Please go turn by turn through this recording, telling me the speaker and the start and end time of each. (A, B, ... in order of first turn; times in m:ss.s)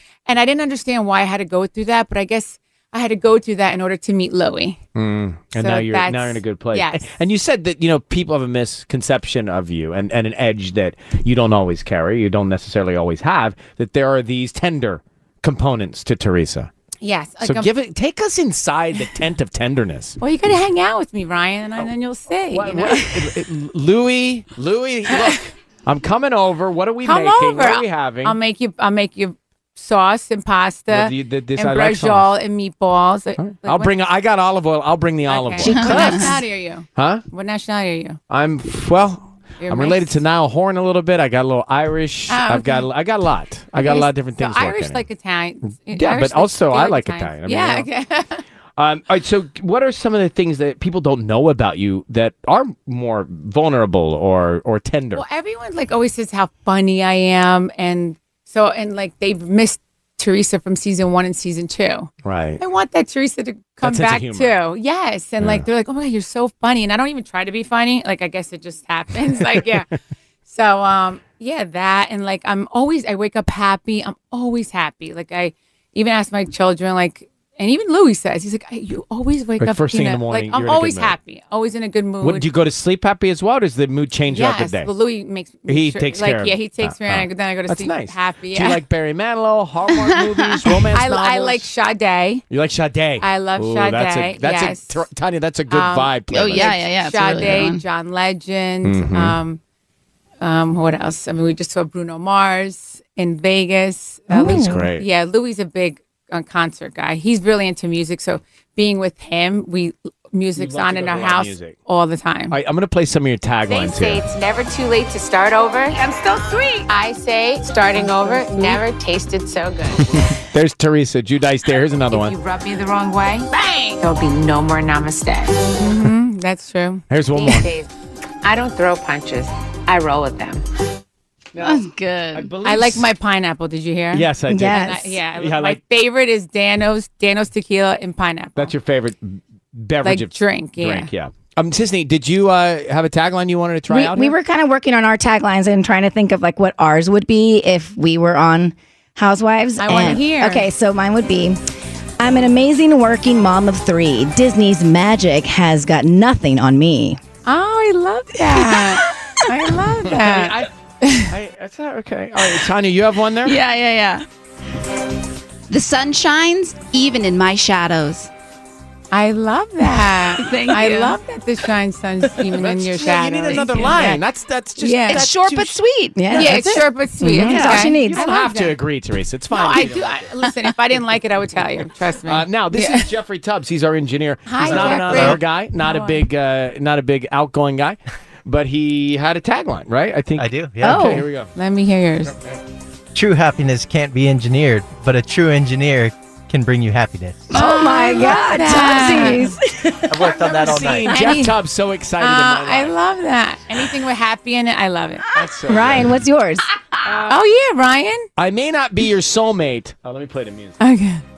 0:00.2-0:04.8 A
0:04.9-0:16.7 B
0:05.5-0:07.2 A
0:17.0-0:17.7 A
0:17.4-0:20.2 B
0:20.2-0:23.4 A
0:22.5-0:28.4 B
0:25.1-0:25.4 A
0:27.0-0:33.9 A
0:30.9-0:32.3 B
0:33.4-0:36.2 B
0:35.3-0:38.2 A
0:35.6-0:36.2 C
0:35.6-0:36.4 D
0:37.0-0:37.2 B
0:38.3-0:45.0 B
0:39.6-0:40.2 A
0:42.3-0:42.9 A
0:43.7-0:48.4 A
0:45.9-0:47.8 B
0:48.8-0:55.2 B
0:55.1-1:09.9 A
1:02.2-1:02.6 B
1:03.8-1:04.5 B
1:10.4-1:22.5 A
1:19.6-1:21.1 B
1:22.2-1:24.9 B
1:24.3-1:28.8 A
1:25.7-1:31.7 B
1:30.9-1:32.4 A
1:32.5-1:36.7 B
1:33.2-1:35.1 A
1:35.7-1:39.6 A
1:36.3-1:37.8 C
1:38.8-1:39.4 B
1:40.4-1:52.6 A
1:44.3-1:44.8 D
1:44.4-1:45.0 B
1:50.6-1:51.8 B
1:52.5-1:54.2 B
1:53.7-2:00.0 A
2:00.0-2:02.3 B
2:02.1-2:07.9 A
2:07.1-2:07.7 B
2:08.4-2:10.6 A
2:11.5-2:13.1 B
2:11.6-2:12.6 C
2:12.6-2:18.7 A
2:14.1-2:15.8 B
2:14.5-2:15.2 D
2:18.6-2:24.3 B
2:20.0-2:21.1 A
2:23.9-2:31.6 D
2:29.8-2:30.7 A
2:32.2-2:37.2 D
2:37.4-2:41.3 A
2:38.5-2:39.1 D
2:40.1-2:43.6 B
2:43.4-2:44.2 C
2:45.7-2:48.3 C
2:49.1-2:54.2 A
2:50.3-2:51.2 C
2:52.5-2:55.8 B
2:54.8-2:55.3 A
2:55.1-2:56.6 C
2:56.2-2:58.3 D
2:56.3-2:58.8 A
2:57.3-3:00.3 B
2:59.5-3:03.1 A
3:02.2-3:11.5 B
3:04.4-3:06.3 A
3:04.6-3:05.4 E
3:10.4-3:11.0 E
3:10.8-3:11.3 D
3:11.5-3:12.4 A
3:13.1-3:17.5 E
3:17.5-3:19.6 A
3:17.5-3:20.1 D
3:20.1-3:21.1 E
3:20.1-3:22.9 B
3:20.8-3:21.6 A
3:21.1-3:21.4 D
3:22.2-3:25.3 A
3:25.3-3:26.2 B
3:25.6-3:26.7 D
3:27.0-3:27.4 B
3:27.2-3:28.3 A
3:28.4-3:30.8 B
3:30.8-3:31.2 A